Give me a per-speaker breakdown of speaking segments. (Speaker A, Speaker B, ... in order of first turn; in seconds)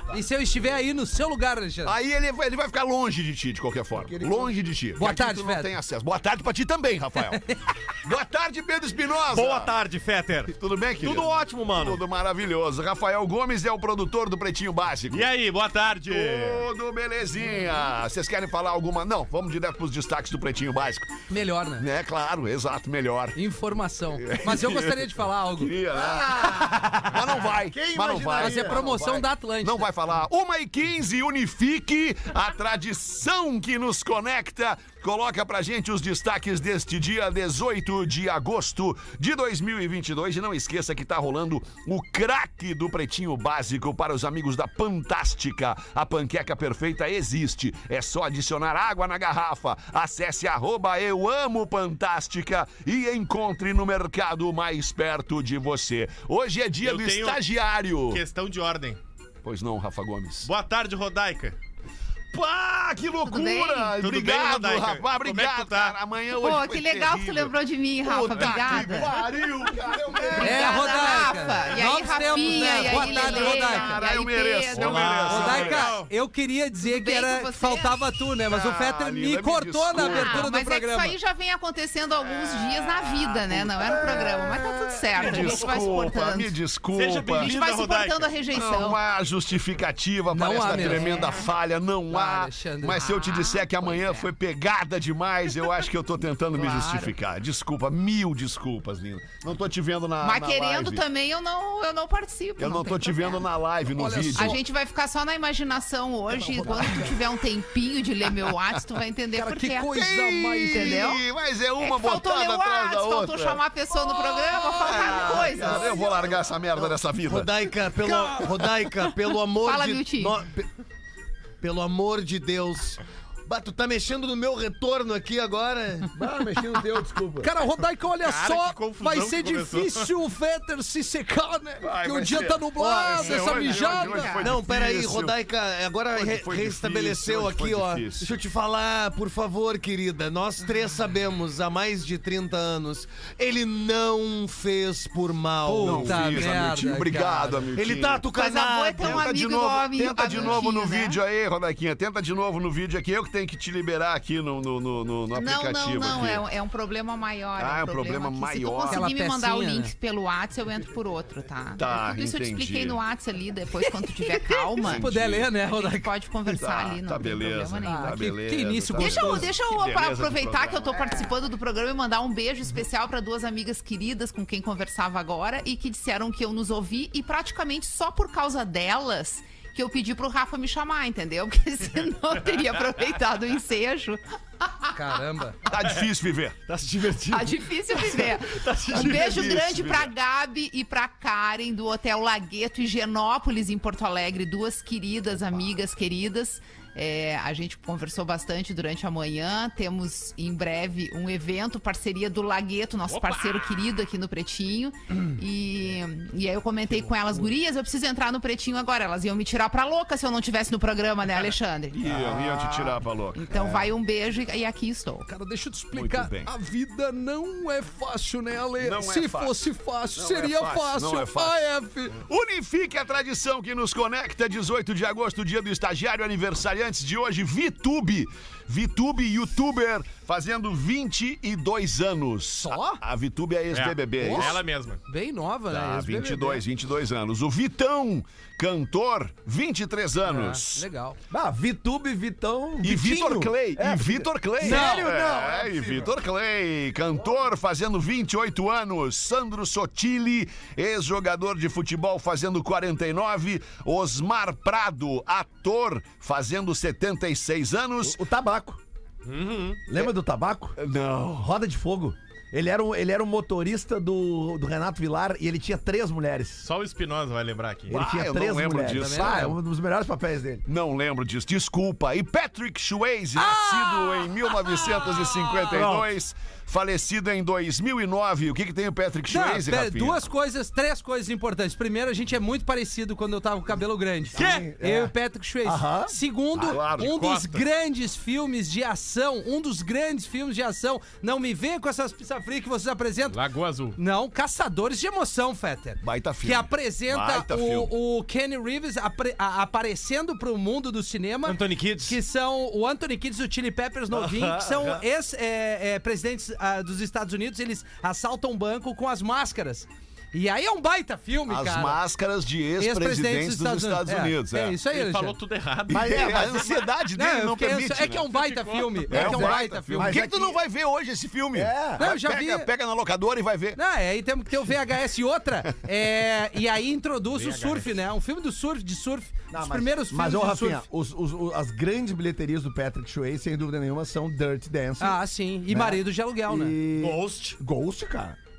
Speaker A: 0.1-1.9, 5.0-5.7, 21.3-21.9, 23.3-25.7, 28.3-29.9, 70.4-74.0, 75.2-81.2, 90.3-91.3, 92.1-93.0, 103.9-104.6, 109.3-111.2, 127.4-134.4, 145.6-147.7, 158.9-159.9, 164.4-166.1, 167.8-169.5, 184.9-185.6, 215.2-222.2, 232.5-233.0, 234.2-234.6, 235.1-236.6, 240.2-241.2, 244.6-245.1, 268.9-269.6, 273.4-275.7, 279.3-293.4, 293.9-312.0, 312.8-315.4, 317.1-320.2, 322.0-322.7, 323.8-330.8, 335.0-336.8
Speaker B: 1.8-7.4, 8.0-9.7, 10.5-15.3, 16.1-21.1, 21.8-23.4, 24.1-58.2, 59.4-60.5, 62.3-71.5, 72.2-75.9, 78.5-80.5, 82.9-87.5, 88.5-101.0, 102.6-104.6, 109.9-117.5, 131.8-135.4, 136.1-138.3, 145.8-148.3, 149.0-156.4, 157.6-159.1, 161.8-163.0, 164.8-165.5, 166.4-171.3, 185.6-186.6, 189.0-190.1, 211.9-213.9, 215.9-216.5, 218.8-234.6, 235.7-240.9, 242.8-258.2, 260.8-261.5, 267.9-269.5, 270.6-280.2, 286.5-287.1, 296.0-297.9, 311.5-314.8, 315.9-318.3, 319.1-323.8
Speaker C: 4.0-4.6, 25.9-28.9, 106.4-107.2, 126.1-127.5, 241.3-245.9, 258.0-258.8, 259.9-260.8, 261.3-266.6, 267.9-270.6, 284.3-286.1, 315.9-316.7, 319.1-320.6, 321.5-322.0, 329.5-338.4
Speaker D: 9.3-12.0, 116.8-120.7, 121.6-126.2, 133.1-133.4, 134.4-146.4, 147.7-149.2, 186.7-189.6, 259.2-259.9, 301.4-302.2, 304.1-305.0, 336.9-337.6
Speaker E: 15.1-16.6, 56.8-57.4, 58.1-59.0, 60.4-61.6, 64.0-66.0, 74.7-76.1, 86.9-88.3, 128.2-130.1, 203.1-203.9, 233.7-235.0, 266.6-268.0, 284.3-284.7, 287.0-287.6, 293.3-294.0, 314.9-316.8, 318.3-319.1, 327.3-327.9
Speaker F: 63.2-63.9, 66.3-69.2, 70.2-75.3, 76.8-78.0, 79.9-86.5, 87.4-89.0, 90.8-91.3, 93.0-94.3, 96.5-97.1, 100.2-103.5, 104.3-110.1, 110.6-111.2, 111.8-116.3, 119.6-120.4, 133.4-134.5, 148.3-151.2, 155.3-165.1, 165.6-168.2, 169.0-184.9, 187.3-215.2